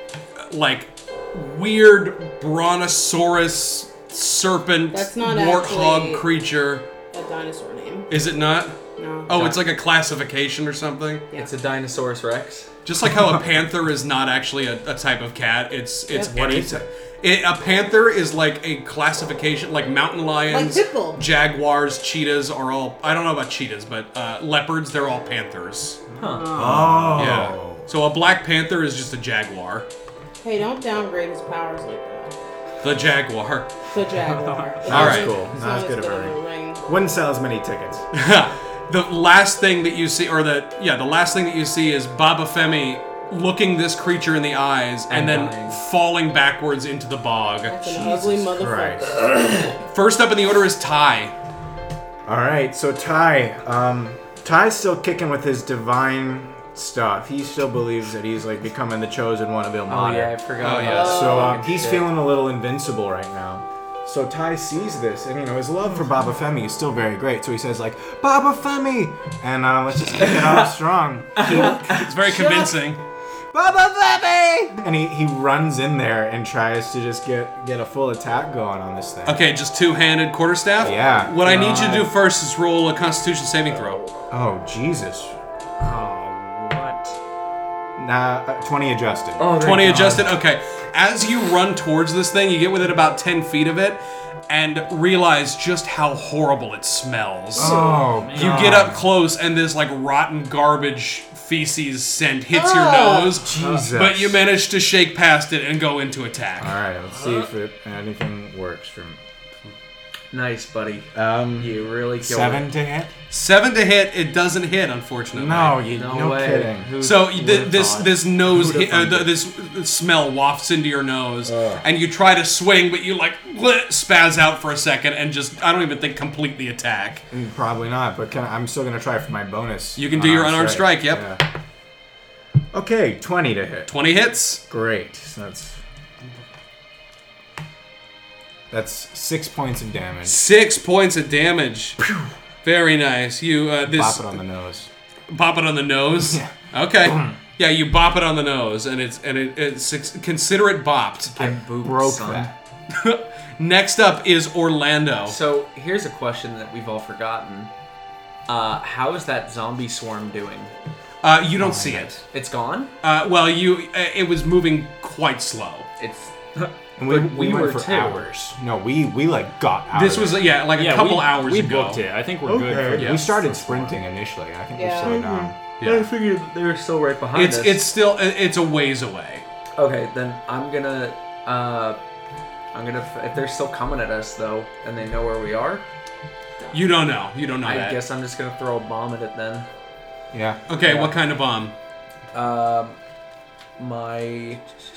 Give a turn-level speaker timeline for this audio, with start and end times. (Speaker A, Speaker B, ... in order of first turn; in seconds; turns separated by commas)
Speaker A: 0.4-6.9, Speaker B: 4.9-6.3, Speaker B: 7.1-8.1, Speaker A: 8.1-11.3, Speaker B: 9.0-9.5, Speaker C: 11.3-12.7, Speaker A: 12.8-26.0, Speaker B: 16.1-16.7, Speaker D: 16.4-16.8, Speaker B: 20.5-21.2, Speaker E: 26.1-27.4, Speaker C: 26.2-26.6, Speaker D: 26.5-27.9, Speaker A: 27.1-29.9, Speaker B: 30.4-32.3, Speaker A: 32.8-33.7, Speaker B: 33.9-36.8, Speaker E: 34.2-34.9, Speaker D: 34.8-38.0, Speaker A: 34.9-35.3, Speaker A: 38.1-48.4, Speaker C: 45.1-45.8, Speaker B: 47.7-49.3, Speaker D: 48.5-49.1, Speaker A: 49.7-51.3, Speaker D: 52.2-72.7, Speaker C: 59.9-62.1, Speaker A: 60.6-61.5, Speaker B: 60.8-61.4, Speaker C: 70.3-70.7, Speaker C: 71.3-72.1, Speaker A: 71.9-73.0, Speaker D: 73.5-79.4, Speaker A: 79.2-84.0, Speaker D: 80.8-81.4, Speaker C: 81.4-82.1, Speaker C: 83.7-84.2, Speaker D: 84.3-85.3, Speaker E: 85.8-87.2, Speaker D: 88.0-89.5, Speaker C: 89.4-90.3, Speaker A: 89.6-97.7, Speaker D: 97.5-99.1, Speaker E: 97.6-98.9, Speaker A: 98.3-106.7, Speaker B: 102.5-103.4, Speaker D: 103.4-104.4, Speaker E: 103.6-103.9, Speaker D: 106.6-109.2, Speaker E: 107.1-107.5, Speaker C: 110.3-112.7, Speaker D: 111.1-113.1, Speaker A: 113.3-115.8, Speaker D: 115.3-116.9, Speaker C: 115.9-118.2, Speaker A: 117.0-127.2, Speaker D: 118.4-119.3, Speaker D: 121.4-121.8, Speaker D: 127.3-131.4, Speaker A: 130.0-131.3, Speaker D: 132.7-133.9, Speaker A: 133.9-134.6, Speaker D: 134.7-135.8, Speaker D: 138.7-140.4, Speaker A: 140.2-142.0, Speaker A: 142.6-144.4, Speaker D: 143.9-144.9, Speaker A: 145.3-151.3, Speaker D: 146.2-147.4, Speaker C: 151.3-152.5, Speaker D: 151.3-152.5, Speaker A: 152.9-155.4, Speaker C: 155.2-157.7, Speaker C: 158.5-160.7, Speaker A: 161.2-162.2, Speaker D: 161.6-162.1, Speaker C: 162.2-162.9, Speaker A: 163.0-165.9, Speaker C: 166.0-168.2, Speaker D: 167.0-170.5, Speaker A: 169.9-172.0, Speaker E: 170.8-173.9, Speaker D: 172.4-175.6, Speaker A: 172.9-173.3, Speaker B: 174.7-175.2, Speaker C: 175.1-177.8, Speaker A: 175.8-176.1, Speaker A: 177.3-179.4, Speaker C: 179.8-182.0, Speaker C: 182.7-185.8, Speaker A: 186.7-188.0, Speaker C: 187.6-189.7, Speaker D: 190.3-190.6, Speaker A: 190.7-191.7, Speaker C: 190.8-191.2, Speaker C: 192.3-193.0, Speaker C: 193.8-194.6